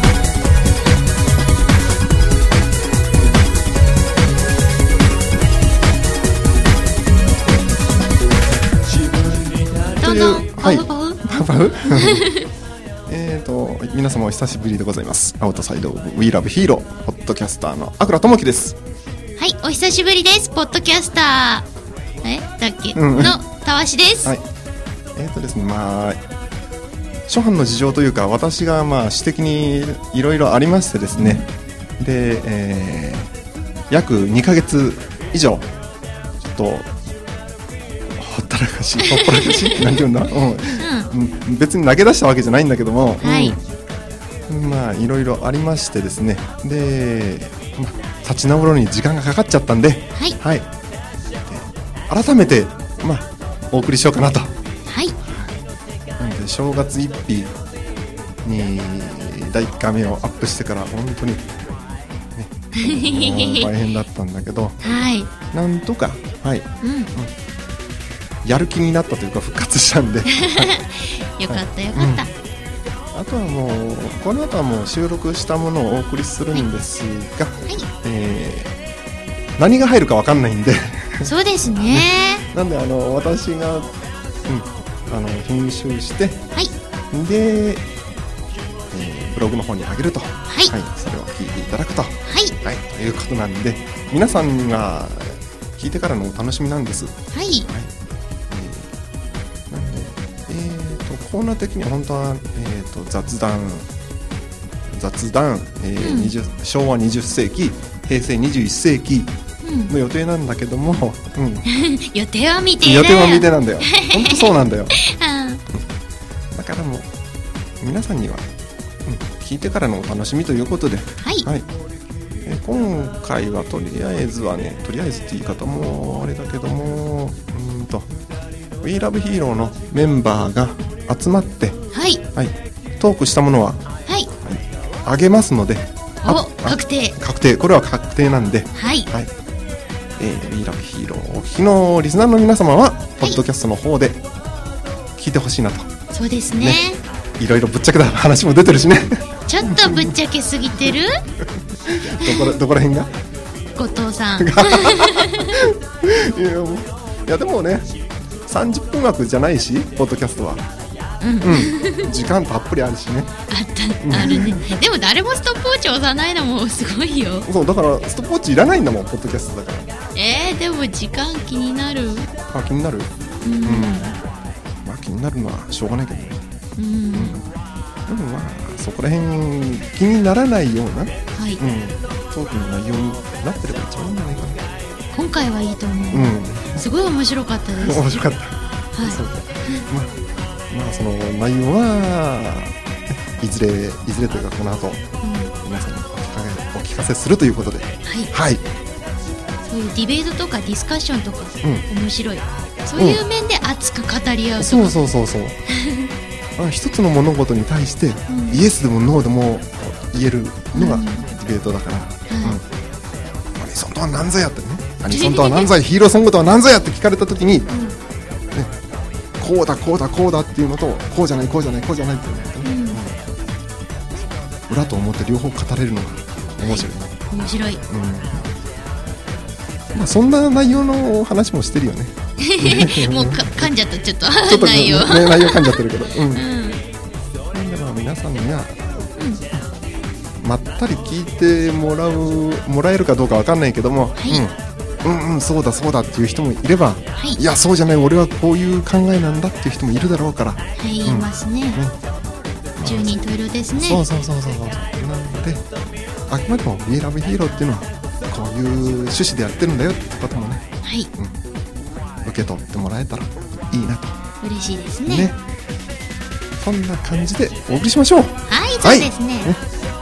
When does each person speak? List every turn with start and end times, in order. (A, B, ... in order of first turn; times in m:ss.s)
0:10.0-0:11.2 A
0:10.0-0:12.3 B
0:12.0-0:12.5 A
0:13.1-0:18.8 B
0:19.4-0:21.7 A
0:22.2-0:24.3 A
0:23.0-0:23.4 B
0:25.2-0:26.2 B
0:27.3-0:31.5 B
0:32.0-0:33.3 B
0:33.9-0:35.7 B
0:36.4-0:36.9 B
0:38.2-0:43.6 B
0:40.8-0:41.1 A
0:43.2-0:43.6 A
0:44.5-0:50.7 B
0:51.5-0:54.5 B
0:54.9-0:55.2 A
0:56.2-0:57.6 B
0:58.4-1:01.5 B
1:02.4-1:04.8 B
1:02.8-1:03.7 A
1:04.8-1:05.3 A
1:05.5-1:07.3 B
1:06.8-1:07.1 A
1:08.4-1:10.7 B
1:10.3-1:12.3 A
1:11.5-1:12.3 B
1:13.1-1:18.7 B
1:19.6-1:23.9 B
1:21.2-1:22.5 A
1:24.5-1:26.4 B
1:27.1-1:27.9 B
1:28.9-1:37.9 B
1:30.5-1:30.7 A
1:32.3-1:32.6 A
1:37.3-1:37.7 A
1:38.5-1:38.9 B
1:39.7-1:43.9 B
1:44.9-1:49.3 B
1:46.0-1:46.3 A
1:49.6-1:49.9 A
1:49.9-1:51.7 B
1:51.7-1:55.6 A
1:52.8-1:55.0 B
1:56.5-1:57.1 B
1:57.8-1:58.5 B
1:59.0-2:01.7 B
2:02.4-2:08.1 B
2:08.8-2:11.8 B
2:11.9-2:12.2 A
2:12.3-2:13.8 B
2:14.4-2:19.3 B
2:16.2-2:17.2 A
2:18.8-2:19.1 A
2:20.2-2:24.2 B
2:25.2-2:25.9 B
2:26.1-2:27.0 A
2:26.5-2:26.8 B
2:27.4-2:30.2 B
2:29.5-2:31.1 A
2:31.9-2:33.1 B
2:32.2-2:32.5 A
2:33.8-2:35.6 A
2:34.4-2:37.9 B
2:38.5-2:40.6 B
2:41.2-2:42.1 A
2:41.4-2:43.3 B
2:43.5-2:47.5 A
2:44.0-2:44.8 B
2:47.5-2:49.9 B
2:50.2-2:52.3 A
2:52.5-2:53.1 B
2:53.4-2:54.1 A
2:53.6-2:54.2 B
2:54.8-2:56.4 B
2:56.8-2:57.4 A
2:57.1-2:57.5 B
2:58.1-3:04.6 B
3:01.4-3:01.6 A
3:05.1-3:08.1 A
3:06.1-3:06.8 B
3:07.8-3:10.1 B
3:08.9-3:09.8 A
3:10.7-3:12.8 B
3:13.4-3:15.0 B
3:15.2-3:15.5 A
3:15.6-3:18.6 B
3:19.6-3:25.0 A
3:23.0-3:23.2 B
3:24.6-3:25.6 B
3:25.7-3:26.1 A
3:26.6-3:32.6 B
3:28.3-3:28.6 A
3:30.7-3:31.3 A
3:32.3-3:32.6 A
3:33.6-3:37.7 B
3:35.1-3:35.7 A
3:37.7-3:38.0 A
3:39.4-3:43.2 B
3:42.6-3:43.0 A
3:44.7-3:47.2 B
3:46.6-3:47.8 A
3:47.9-3:48.5 B
3:49.9-3:53.7 B
3:52.4-3:55.8 A
3:54.4-3:56.4 B
3:56.3-3:56.8 A
3:57.5-3:58.8 B
3:59.2-3:59.4 A
4:00.4-4:12.0 B
4:04.2-4:04.4 A
4:10.8-4:11.8 A
4:12.8-4:13.1 B
4:12.8-4:14.0 A
4:13.8-4:15.6 B
4:16.3-4:20.6 B
4:20.8-4:21.1 A
4:22.2-4:24.2 B
4:24.4-4:25.3 A
4:25.1-4:25.4 B
4:26.6-4:29.6 B
4:28.5-4:29.5 A